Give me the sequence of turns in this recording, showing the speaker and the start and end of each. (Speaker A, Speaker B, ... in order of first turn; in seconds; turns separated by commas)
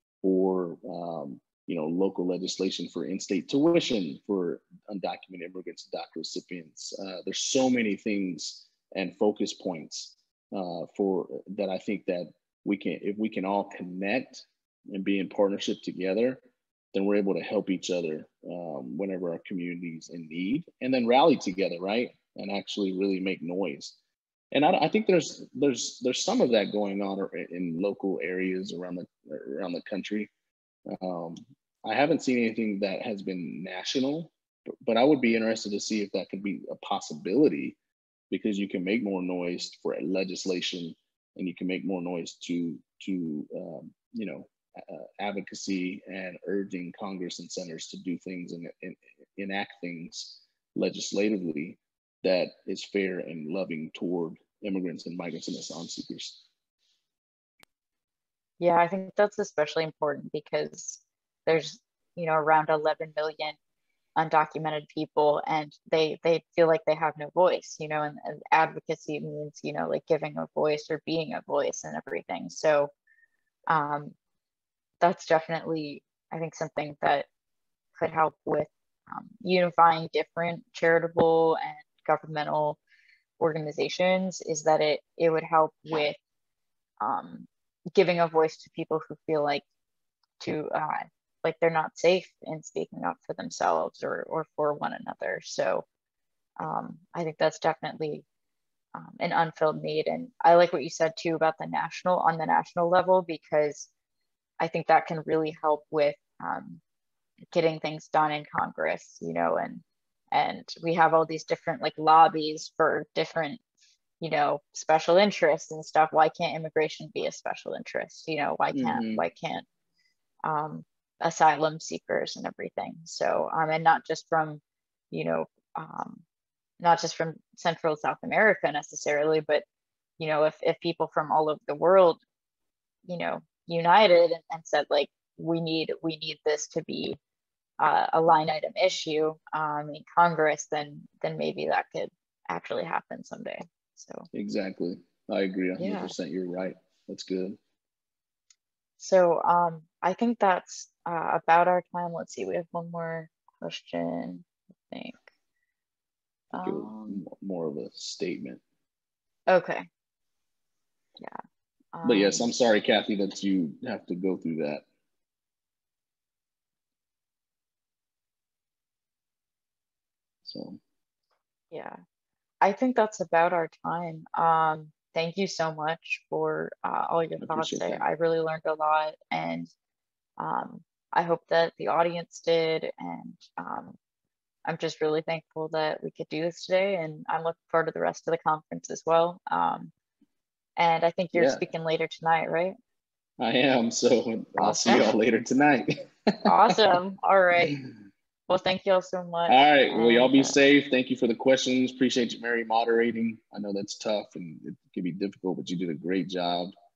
Speaker A: 0.2-16.4, Speaker A: 16.9-24.0, Speaker A: 24.5-30.3, Speaker A: 30.9-34.3, Speaker A: 34.8-37.8, Speaker A: 38.3-56.4, Speaker B: 58.6-63.6, Speaker B: 64.2-72.9, Speaker B: 73.7-74.2, Speaker B: 75.0-77.3, Speaker B: 78.0-82.8, Speaker B: 83.4-86.2, Speaker B: 87.0-89.6, Speaker B: 90.4-95.8, Speaker B: 96.6-98.2, Speaker B: 99.0-103.9, Speaker B: 104.6-106.8, Speaker B: 107.5-113.6, Speaker B: 114.2-119.7, Speaker A: 118.7-119.2, Speaker B: 120.4-126.2, Speaker B: 126.8-129.7, Speaker B: 130.2-132.2, Speaker B: 133.1-137.2, Speaker B: 137.8-144.3, Speaker A: 144.3-147.6, Speaker B: 145.8-146.1, Speaker B: 149.0-155.2, Speaker B: 156.5-157.2, Speaker A: 156.5-158.6, Speaker B: 159.5-159.9, Speaker B: 161.9-162.5, Speaker A: 162.0-164.8, Speaker A: 170.4-170.8, Speaker B: 171.7-172.0, Speaker B: 172.6-179.7, Speaker A: 177.4-178.0, Speaker B: 180.4-184.0, Speaker B: 184.7-189.9, Speaker B: 190.8-192.8, Speaker A: 191.3-191.6, Speaker A: 193.4-196.5, Speaker B: 194.6-195.1, Speaker B: 196.4-197.8, Speaker B: 198.5-200.6, Speaker A: 199.5-206.7